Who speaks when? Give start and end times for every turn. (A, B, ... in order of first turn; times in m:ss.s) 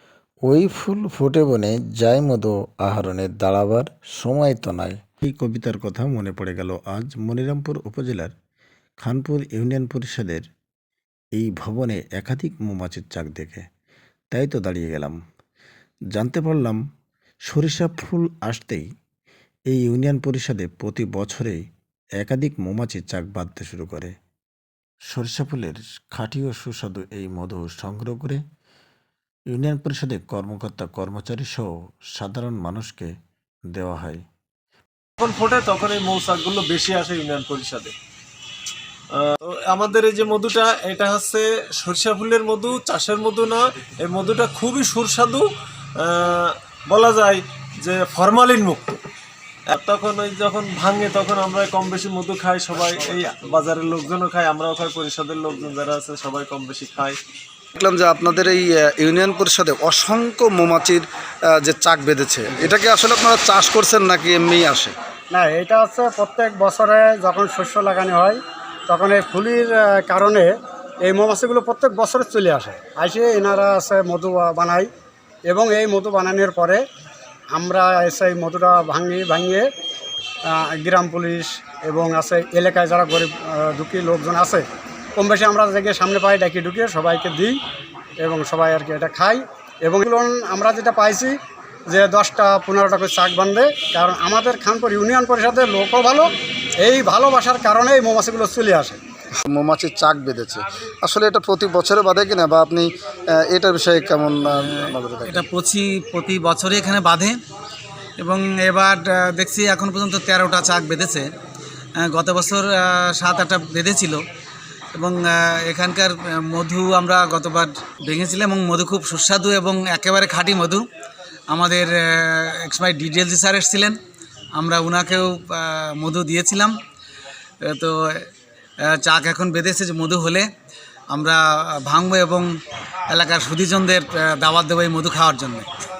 0:00.5-0:08.3 A
0:09.0-0:10.5 A
0:11.4-0:13.6 A
0:14.3-0:15.2 A
0:16.1-0:16.8 A
0:17.4-0:18.9 A
0:19.7-0:21.6 A
0:22.2-0:24.2 A
0:25.1-0:28.4 A
0:29.5-0:33.1 A
0:33.7-0:34.2 A
0:35.2-0:37.9 B
0:39.5-0:45.5 B
0:46.0-0:48.8 B
0:49.7-0:57.2 B
0:57.8-1:04.9 C
1:05.3-1:10.5 D
1:11.0-1:14.9 D
1:15.5-1:16.8 D
1:17.5-1:19.7 D
1:20.5-1:24.6 D
1:25.2-1:27.6 D
1:28.2-1:31.3 D
1:31.9-1:36.3 D
1:36.8-1:39.0 D
1:39.4-1:45.4 C
1:44.6-1:47.4 E
1:48.2-1:51.2 E
1:52.0-1:54.2 E
1:55.0-2:00.8 E
2:01.5-2:04.0 E
2:04.5-2:06.8 E
2:07.6-2:08.3 E
2:08.9-2:10.5 E
2:11.1-2:12.5 E
2:13.1-2:15.7 E